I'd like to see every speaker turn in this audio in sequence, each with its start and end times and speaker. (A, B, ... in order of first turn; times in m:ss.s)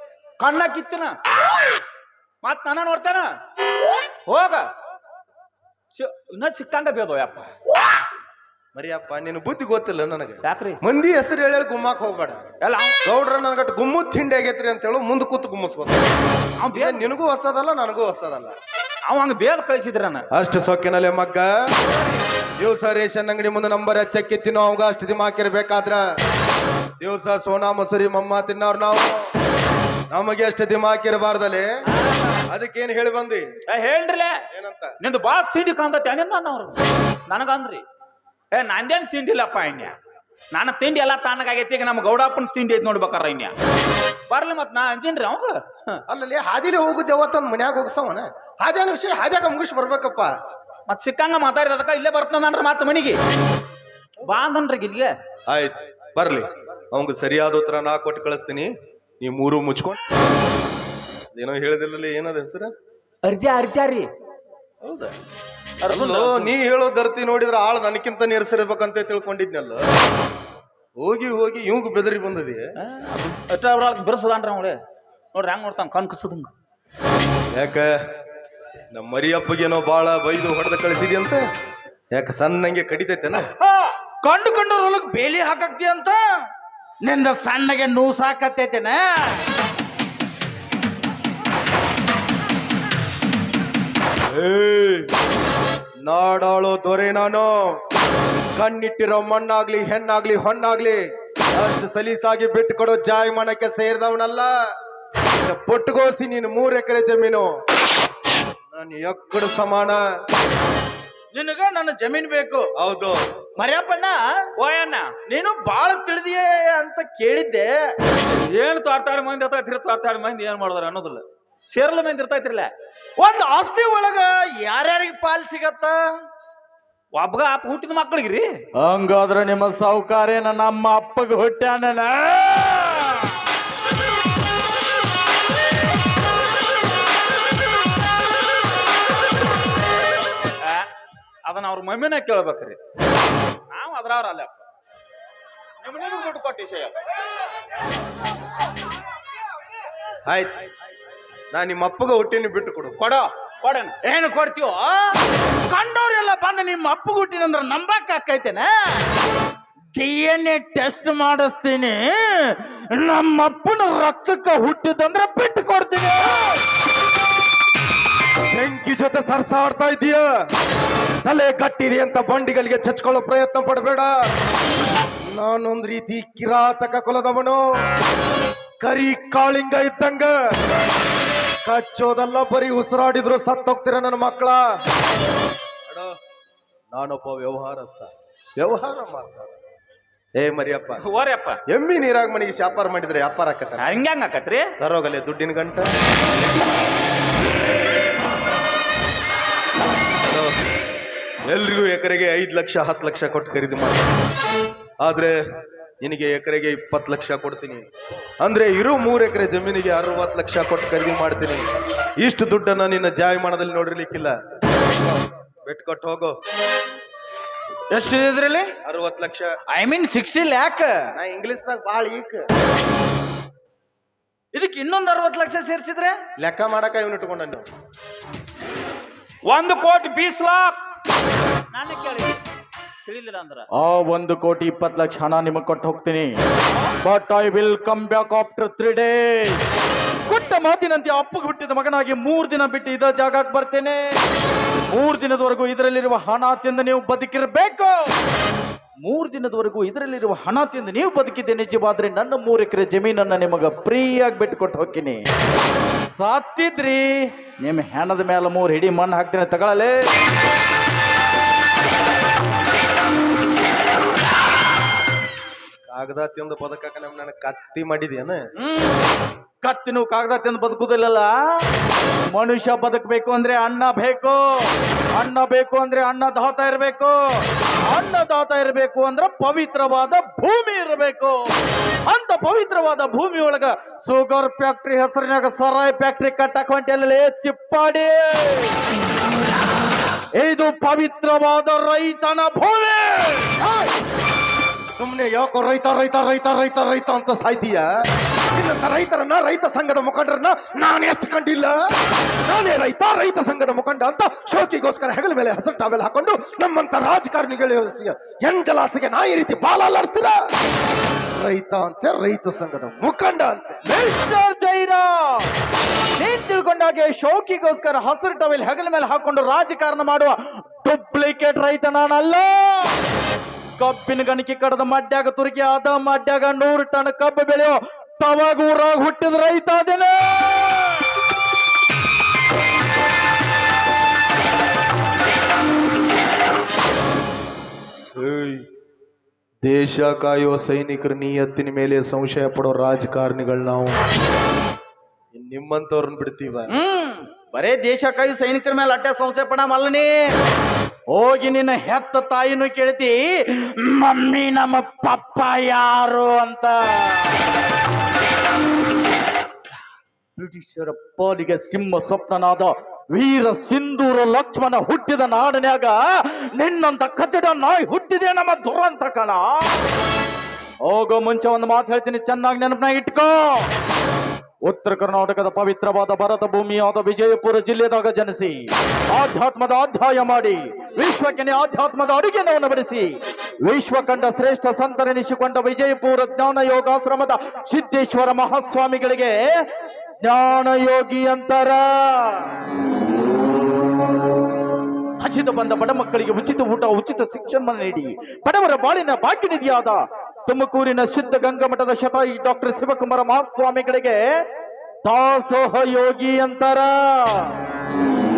0:00.4-0:01.2 A
0:02.4-0:03.3 A
0:04.3-0:04.6 A
0:05.9-0:07.5 A
0:08.7-0:12.4 B
0:10.4-0:10.8 A
0:12.6-0:13.0 A
0:13.0-0:16.0 B
0:16.6-0:17.1 A
0:16.7-0:18.6 B
0:19.1-0:20.2 A
0:20.3-0:21.5 B
0:22.6-0:26.0 B
0:27.0-0:29.2 B
0:30.1-0:31.7 B
0:31.9-0:32.4 A
0:32.5-0:33.5 B
0:33.7-0:34.4 A
0:34.5-0:35.0 B
0:35.0-0:37.8 A
0:38.5-0:40.0 A
0:40.5-0:43.5 A
0:44.3-0:46.0 A
0:46.1-0:50.3 B
0:50.9-0:53.2 A
0:54.2-0:55.1 A
0:55.5-1:00.0 B
1:01.3-1:02.7 B
1:03.2-1:04.1 A
1:04.8-1:05.1 B
1:05.8-1:09.8 B
1:05.8-1:06.6 A
1:11.0-1:12.6 B
1:12.8-1:14.8 A
1:15.3-1:16.5 A
1:17.5-1:17.9 B
1:18.9-1:21.4 B
1:22.1-1:23.4 B
1:23.4-1:23.9 A
1:24.2-1:26.2 C
1:27.0-1:29.4 C
1:34.3-1:35.1 B
1:36.0-1:37.5 B
1:38.6-1:41.0 B
1:41.5-1:44.5 B
1:45.4-1:47.5 B
1:48.7-1:50.0 B
1:51.3-1:52.7 C
1:52.8-1:53.2 B
1:53.6-1:54.2 C
1:54.6-1:55.1 A
1:55.3-1:57.7 C
1:58.4-2:02.7 A
2:03.2-2:06.0 C
2:07.1-2:08.5 A
2:08.8-2:13.3 C
2:20.6-2:20.9 A
2:21.4-2:22.8 A
2:23.7-2:24.6 A
2:25.8-2:27.0 A
2:30.2-2:30.5 B
2:31.5-2:33.0 B
2:33.0-2:33.9 A
2:34.0-2:39.1 C
2:39.9-2:46.6 C
2:48.5-2:50.2 B
2:51.2-2:54.1 B
2:55.2-2:57.6 B
2:58.8-3:00.3 B
3:01.6-3:04.6 B
3:06.9-3:09.5 B
3:10.4-3:11.0 B
3:11.0-3:11.6 A
3:11.7-3:14.0 B
3:13.8-3:14.7 A
3:14.8-3:15.9 B
3:21.4-3:24.1 B
3:25.0-3:25.3 B
3:26.0-3:27.8 B
3:28.4-3:31.6 B
3:32.2-3:34.3 B
3:35.6-3:36.4 B
3:37.9-3:38.7 C
3:38.8-3:39.5 B
3:39.7-3:41.1 C
3:41.1-3:42.4 B
3:44.5-3:46.2 C
3:46.4-3:47.6 B
3:49.5-3:50.8 A
3:51.7-3:52.4 A
3:53.0-3:53.7 A
3:53.7-3:56.4 C
3:57.0-3:59.6 C
4:00.2-4:04.0 C
4:04.9-4:08.1 C
4:09.0-4:15.2 C
4:16.1-4:20.0 C
4:25.9-4:28.4 B
4:28.6-4:29.0 C
4:29.6-4:31.3 C
4:32.3-4:41.4 C
4:42.0-4:48.8 C
4:50.4-4:53.5 C
4:53.6-4:53.9 B
4:55.0-4:57.9 B
4:58.5-5:01.7 B
5:02.4-5:10.4 B
5:11.3-5:13.8 B
5:13.8-5:15.5 C
5:16.2-5:23.0 C
5:23.8-5:31.0 C
5:38.2-5:38.6 B
5:39.6-5:44.0 B
5:45.3-5:46.7 B
5:46.7-5:50.1 C
5:51.1-5:57.4 C
6:00.4-6:09.8 C
6:10.8-6:13.7 C
6:14.6-6:29.4 C
6:30.2-6:32.5 C
6:35.2-6:44.2 C
6:45.0-6:47.6 C